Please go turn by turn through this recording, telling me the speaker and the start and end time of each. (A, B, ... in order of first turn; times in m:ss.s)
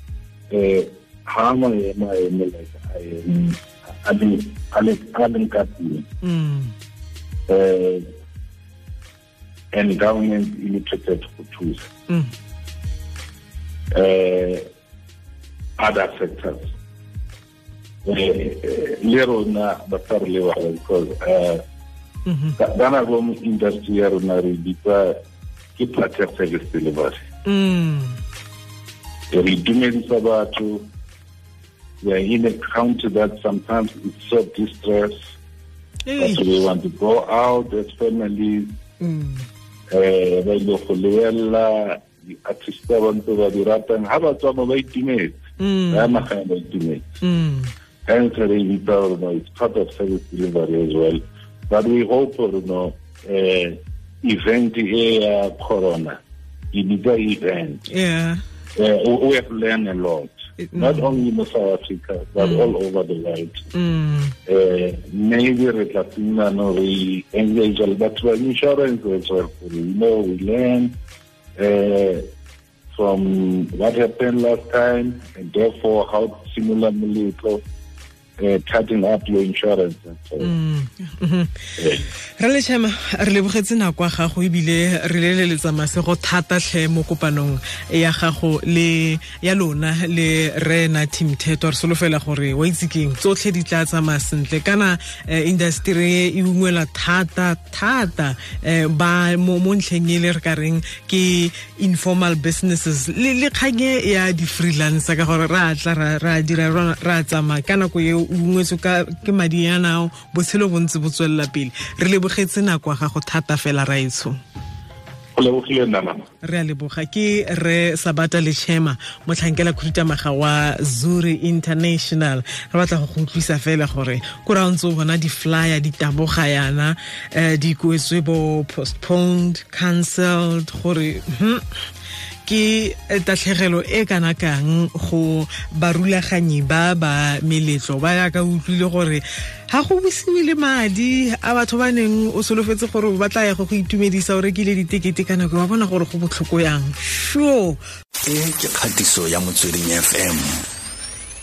0:00.5-0:06.1 A
0:06.2-0:06.7 B
0:07.5-0:08.1 A
0:09.7-0:11.9 A
0:13.9-0:14.7 A
0:15.8-0:16.7 A
0:18.0-0:21.6 A
0:22.2-0:22.6 B
0:22.6-0:25.2 A
0:25.8-0:27.2 A
0:27.4-0:28.2 B
0:29.3-0:30.9 A
0:32.0-0:35.3 A
0:36.0-0:36.5 B
0:36.2-0:38.8 A
0:39.0-0:39.5 B
0:39.9-0:47.1 A
0:45.6-0:46.2 B
0:47.2-0:47.7 B
0:48.0-0:57.8 A
0:57.9-0:58.4 B
0:58.8-1:03.6 A
1:00.6-1:01.2 B
1:02.4-1:02.7 B
1:03.7-1:04.3 B
1:04.4-1:11.0 A
1:11.6-1:12.3 A
1:12.9-1:17.6 A
1:18.4-1:20.5 A
1:20.4-1:21.5 B
1:21.8-1:22.1 A
1:22.4-1:54.4 B
1:55.3-1:56.3 A
1:56.4-2:11.6 B
2:12.4-2:27.8 B
2:28.2-2:30.6 C